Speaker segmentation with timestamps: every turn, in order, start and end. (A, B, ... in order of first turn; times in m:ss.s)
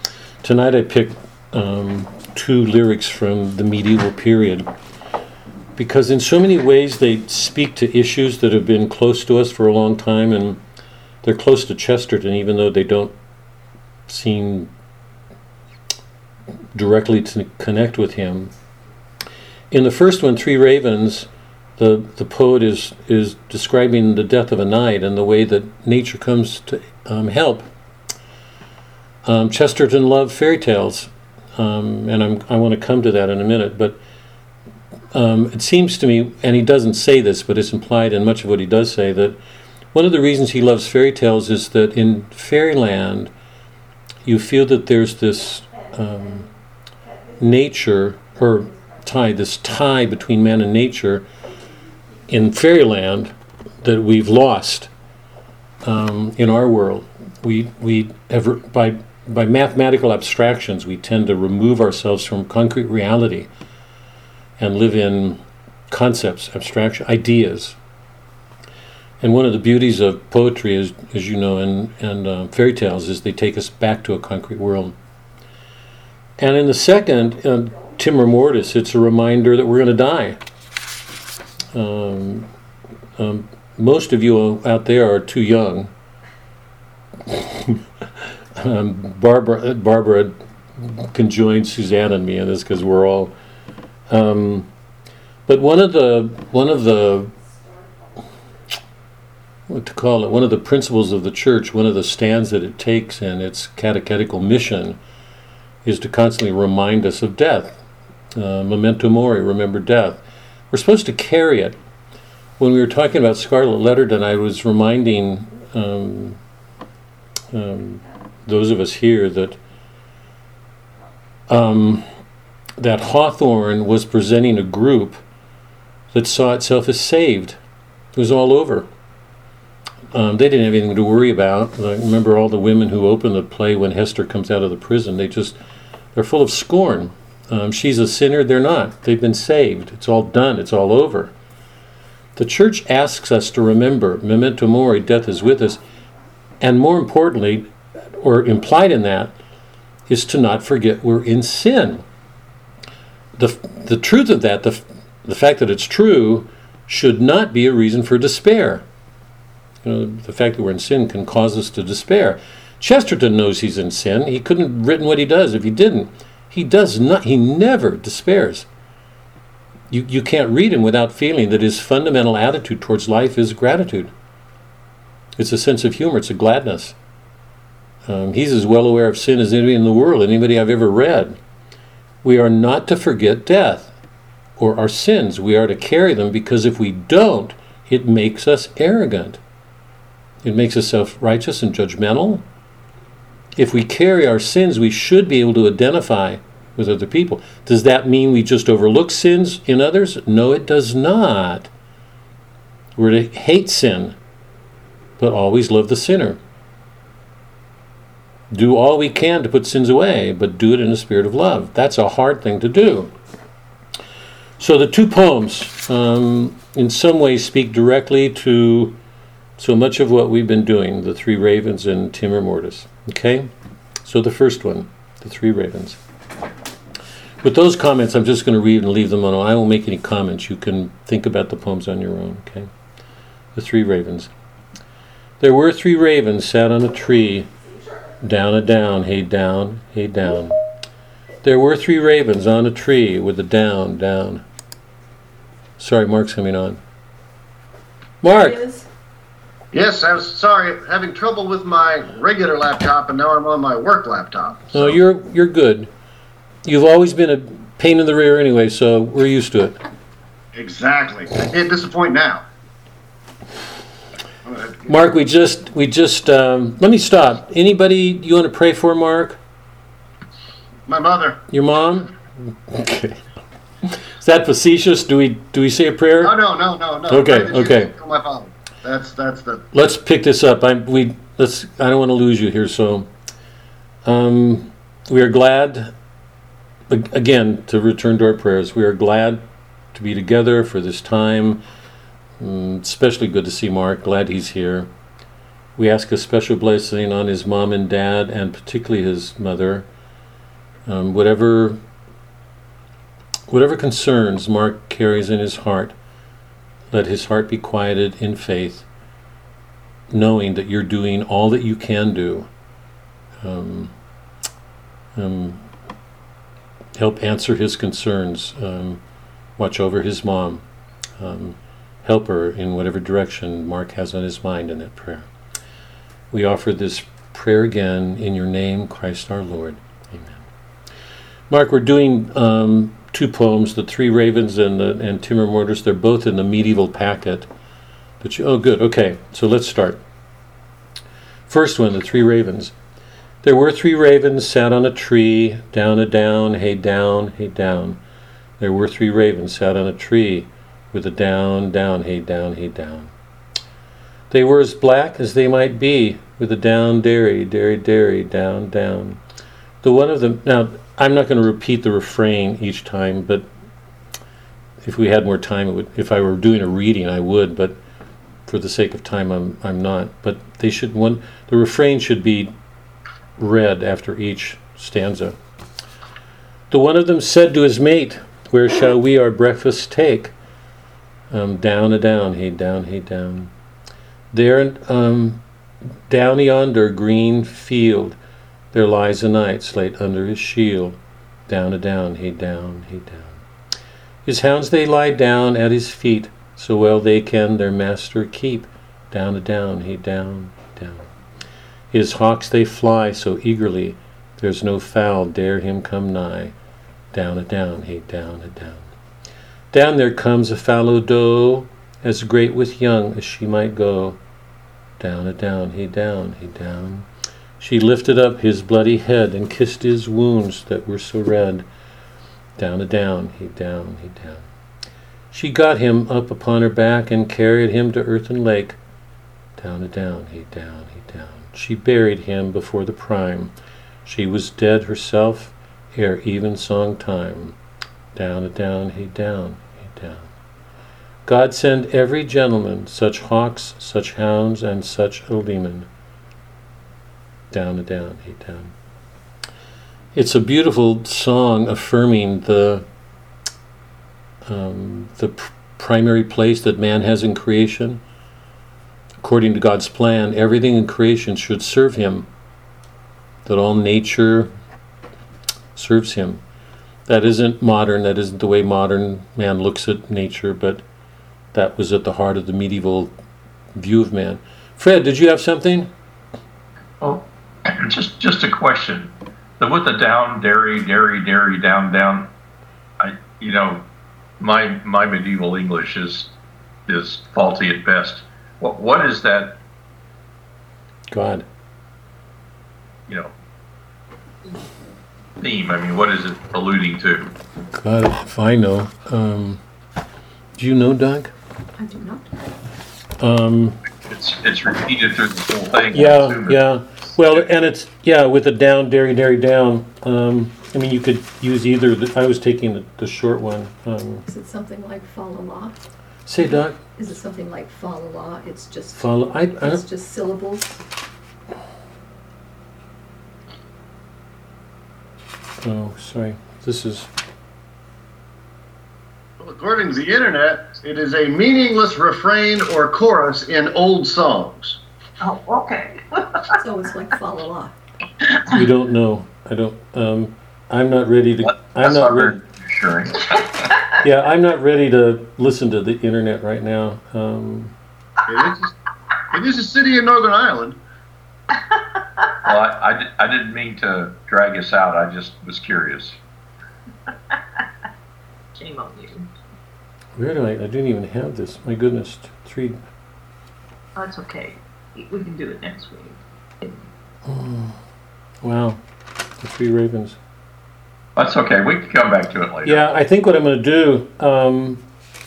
0:00.4-0:04.7 A
0:05.8-0:10.6 A
0:11.2-0:13.1 A
0:14.1-0:14.7 A
0:16.7-0:18.5 A
0:19.7-0:27.7 A
0:29.2-0:34.0 A
0:35.1-0:39.4 A
0:39.9-0:43.3 A
0:44.2-0:46.4 A
0:45.7-0:46.5 B
0:47.0-0:47.7 B
0:47.4-0:51.3 A
0:48.4-0:49.0 B
0:52.3-0:54.9 A
0:55.8-1:03.5 A
1:04.6-1:07.8 A
1:09.2-1:15.0 A
1:16.4-1:20.4 A
1:21.7-1:22.5 A
1:23.2-1:25.9 A
1:27.2-1:27.8 A
1:28.5-1:33.3 A
1:34.1-1:34.7 A
1:35.5-1:37.3 A
1:37.3-1:38.3 B
1:39.7-1:45.0 A
1:45.8-1:47.8 A
1:48.3-1:51.8 A
1:52.6-1:56.4 A
1:57.5-1:59.6 A
2:01.5-2:02.0 A
2:02.8-2:05.2 A
2:06.1-2:07.6 A
2:08.1-2:08.9 A
2:10.1-2:15.6 A
2:16.1-2:21.3 A
2:22.4-2:25.8 A
2:26.6-2:29.3 A
2:30.1-2:32.0 A
2:33.4-2:38.8 A
2:39.8-2:48.7 A
2:49.9-2:54.1 A
2:55.4-2:57.0 A
2:58.0-3:01.4 A
3:02.2-3:03.9 A
3:04.6-3:09.4 A
3:10.4-3:12.4 A
3:13.6-3:21.7 A
3:23.0-3:24.2 A
3:25.2-3:26.4 A
3:28.5-3:33.1 A
3:34.6-3:39.0 A
3:39.6-3:43.5 A
3:44.0-3:46.0 A
3:47.4-3:52.7 A
3:53.5-3:54.3 A
3:55.4-3:57.5 A
3:58.2-4:00.5 A
4:01.4-4:04.4 A
4:05.8-4:06.8 A
4:08.2-4:08.8 A
4:08.3-4:08.8 B
4:09.7-4:15.0 C
4:14.7-4:15.9 A
4:16.6-4:19.8 A
4:20.5-4:22.4 C
4:24.4-4:24.9 C
4:24.8-4:29.4 A
4:30.9-4:31.4 C
4:31.5-4:33.2 A
4:33.8-4:36.3 A
4:36.2-4:39.6 C
4:37.1-4:37.9 A
4:39.7-4:43.1 A
4:44.0-4:45.9 A
4:46.9-4:49.4 A
4:49.9-4:51.6 A
4:52.4-4:54.9 A
4:55.8-4:59.9 A
5:00.8-5:01.8 A
5:03.5-5:06.0 A
5:06.9-5:08.9 A
5:10.1-5:12.5 A
5:13.4-5:13.9 A
5:15.1-5:15.6 A
5:17.0-5:19.0 A
5:19.6-5:20.6 A
5:21.2-5:25.3 A
5:26.3-5:30.4 A
5:31.5-5:37.5 A
5:38.2-5:40.0 A
5:41.5-5:42.7 A
5:43.4-5:48.0 A
5:48.6-5:53.1 A
5:54.3-5:59.2 A
5:59.8-6:03.5 A
6:04.8-6:07.8 A
6:08.5-6:12.5 A
6:13.4-6:15.4 A
6:16.7-6:20.3 A
6:21.3-6:23.5 A
6:24.3-6:25.4 A
6:26.1-6:28.2 A
6:28.7-6:33.4 A
6:34.2-6:41.1 A
6:41.9-6:46.5 A
6:47.1-6:48.8 A
6:49.7-6:54.2 A
6:55.0-6:57.1 A
6:57.6-7:01.7 A
7:02.6-7:04.4 A
7:05.3-7:08.8 A
7:09.6-7:13.5 A
7:14.0-7:17.6 A
7:18.1-7:20.3 A
7:21.2-7:25.9 A
7:27.5-7:28.7 A
7:30.1-7:32.8 A
7:34.4-7:38.0 A
7:39.2-7:42.3 A
7:43.4-7:44.5 A
7:45.7-7:46.4 A
7:47.0-7:50.8 A
7:51.5-7:53.1 A
7:53.8-7:55.9 A
7:57.0-8:02.3 D
8:03.0-8:03.8 D
8:04.4-8:06.3 D
8:06.9-8:09.6 D
8:11.1-8:11.4 A
8:13.1-8:13.3 D
8:15.4-8:17.3 D
8:17.7-8:19.6 A
8:20.6-8:21.3 A
8:21.8-8:22.5 B
8:23.2-8:23.8 A
8:24.1-8:26.6 D
8:25.9-8:34.2 A
8:34.3-8:35.8 B
8:36.2-8:36.8 A
8:36.8-8:40.8 B
8:38.9-8:39.8 A
8:45.6-8:47.1 A
8:49.4-8:54.8 C
8:55.2-8:56.6 E
8:56.6-8:57.8 B
8:58.5-9:02.4 A
9:01.4-9:03.4 D
9:04.0-9:07.7 A
9:08.3-9:08.7 C
9:09.3-9:10.8 C
9:12.4-9:16.2 D
9:18.5-9:19.3 E
9:20.2-9:22.8 A
9:24.0-9:26.8 E
9:27.2-9:27.8 A
9:28.4-9:28.8 A
9:29.4-9:30.2 A
9:31.2-9:32.8 D
9:32.6-9:34.8 A